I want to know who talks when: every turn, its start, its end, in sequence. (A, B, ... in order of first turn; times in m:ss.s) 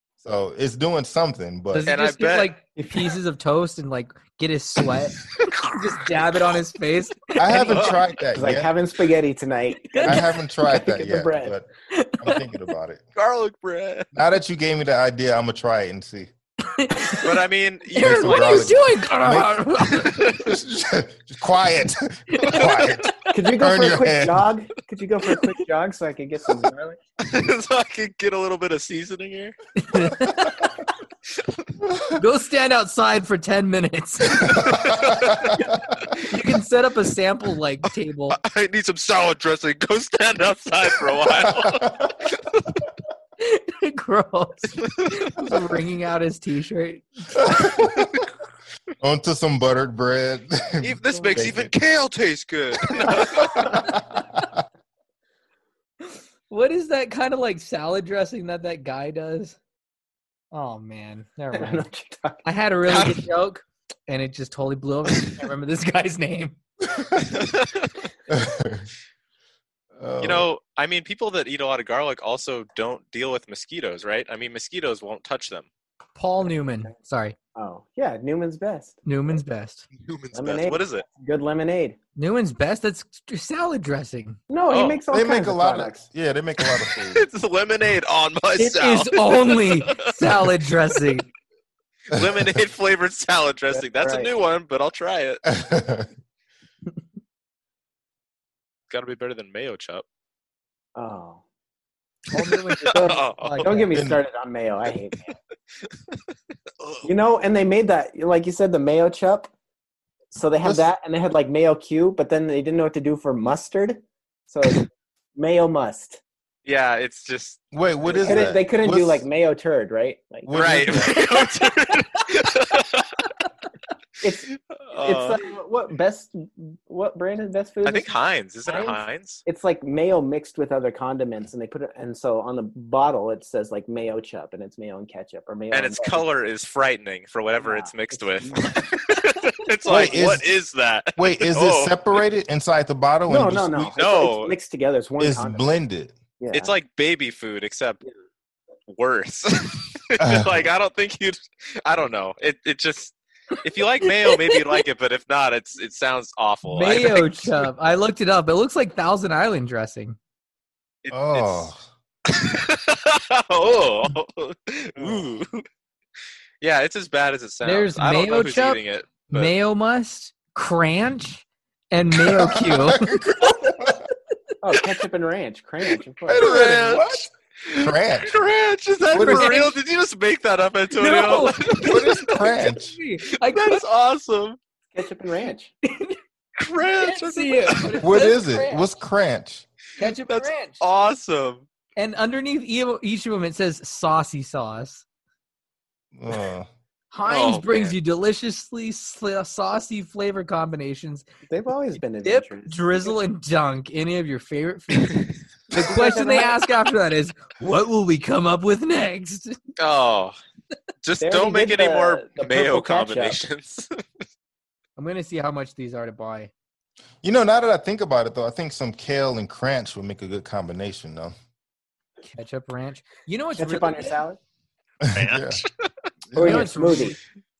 0:00.2-0:01.9 A
0:01.7-0:07.9 B
0:01.8-0:02.5 C
0:05.4-0:06.0 C
0:07.4-0:08.7 A
0:07.5-0:08.0 C
0:08.4-0:11.5 D
0:09.9-0:10.2 B
0:10.0-0:11.7 A
0:11.9-0:12.2 B
0:12.2-0:13.0 A
0:13.1-0:14.1 C
0:14.1-0:16.3 A
0:16.7-0:17.3 B
0:17.1-0:18.7 C
0:17.9-0:20.2 B
0:18.0-0:24.4 A
0:20.0-0:20.5 C
0:22.3-0:23.3 B
0:23.3-0:27.0 D
0:27.2-0:29.5 C
0:29.8-0:30.7 B
0:32.1-0:34.8 B
0:34.4-0:35.6 C
0:34.5-0:35.7 A
0:36.1-0:38.4 B
0:38.3-0:42.8 C
0:41.6-0:42.1 A
0:43.4-0:47.6 B
0:47.5-0:48.1 A
0:49.0-0:51.7 A
0:50.8-0:53.8 C
0:53.0-0:54.5 A
0:56.5-0:59.6 B
1:00.5-1:01.8 B
1:01.5-1:02.4 D
1:02.4-1:06.6 B
1:02.9-1:03.2 C
1:06.9-1:07.3 A
1:07.3-1:07.9 C
1:08.3-1:08.9 A
1:10.0-1:10.5 A
1:10.2-1:15.7 C
1:16.2-1:17.4 B
1:17.5-1:19.0 D
1:19.0-1:19.9 B
1:20.0-1:21.0 C
1:20.3-1:22.0 D
1:22.2-1:24.4 B
1:24.5-1:26.0 D
1:24.7-1:25.0 C
1:25.1-1:27.2 A
1:27.0-1:30.4 C
1:28.6-1:31.3 B
1:32.1-1:35.4 C
1:33.7-1:34.3 D
1:35.5-1:36.1 A
1:38.9-1:40.0 C
1:41.0-1:41.4 D
1:42.3-1:43.9 B
1:42.8-1:43.7 C
1:42.9-1:45.3 D
1:43.9-1:44.2 A
1:46.8-1:47.1 C
1:47.0-1:49.5 D
1:50.3-1:56.2 D
1:56.6-1:57.6 C
1:57.7-1:59.2 A
1:58.0-2:01.2 D
2:00.4-2:01.3 A
2:00.5-2:03.1 C
2:04.2-2:08.1 D
2:04.7-2:05.4 C
2:07.8-2:09.4 C
2:08.7-2:16.2 D
2:15.7-2:22.0 C
2:17.6-2:18.7 D
2:19.8-2:20.5 A
2:21.2-2:23.9 A
2:23.3-2:25.7 D
2:24.0-2:24.5 C
2:25.2-2:26.2 A
2:26.4-2:26.7 D
2:26.5-2:28.0 C
2:28.9-2:37.6 C
2:30.2-2:30.5 A
2:34.1-2:34.8 B
2:36.7-2:40.2 B
2:41.0-2:41.7 C
2:41.1-2:41.8 A
2:42.3-2:45.6 C
2:45.0-2:45.2 D
2:46.6-2:49.5 C
2:47.6-2:53.2 B
2:52.3-2:54.1 A
2:54.6-2:56.5 D
2:56.2-2:57.2 A
2:56.4-3:02.1 C
2:57.8-2:58.3 A
2:59.1-2:59.6 A
2:59.2-2:59.7 B
3:01.0-3:03.8 B
3:01.8-3:02.9 A
3:03.3-3:04.6 C
3:04.9-3:05.7 D
3:05.8-3:06.2 B
3:06.6-3:08.0 C
3:06.7-3:08.9 B
3:08.0-3:09.6 A
3:10.0-3:10.8 B
3:10.0-3:11.6 C
3:12.0-3:15.0 B
3:16.1-3:16.7 A
3:17.1-3:21.2 B
3:17.2-3:17.9 C
3:21.5-3:23.2 D
3:22.2-3:25.2 B
3:25.0-3:25.2 C
3:25.7-3:26.6 D
3:25.7-3:29.6 B
3:29.8-3:30.4 C
3:31.0-3:34.0 C
3:31.2-3:33.4 D
3:35.0-3:36.5 B
3:37.2-3:41.3 A
3:42.2-3:44.2 B
3:43.6-3:44.4 D
3:45.0-3:45.6 A
3:45.1-3:45.9 C
3:46.3-3:46.9 A
3:46.3-3:47.2 D
3:46.4-3:47.2 B